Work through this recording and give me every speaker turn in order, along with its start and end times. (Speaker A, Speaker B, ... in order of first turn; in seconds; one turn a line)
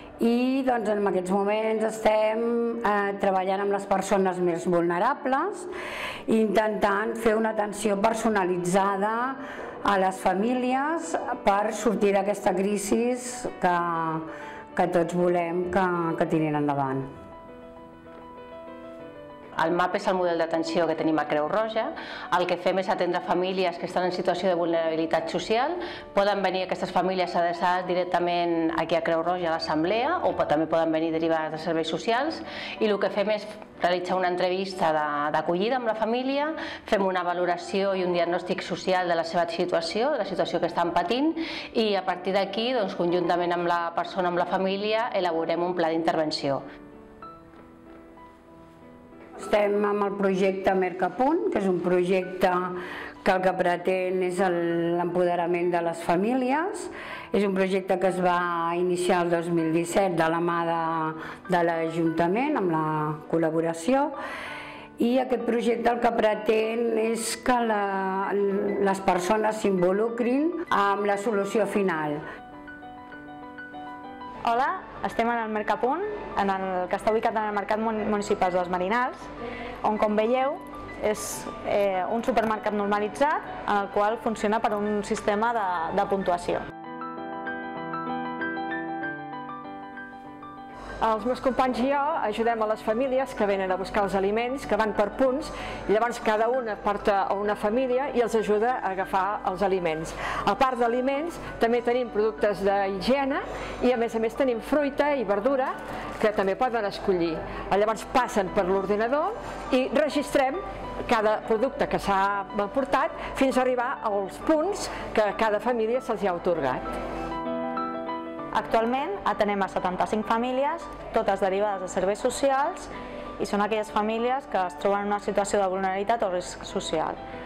Speaker A: 0.2-5.7
Speaker A: 6.3-17.1
Speaker B: 19.6-46.6
Speaker A: 49.4-64.2
Speaker A: 65.0-72.2
Speaker C: 74.4-79.3
Speaker C: 79.8-86.6
Speaker D: 91.0-116.9
Speaker C: 118.5-127.2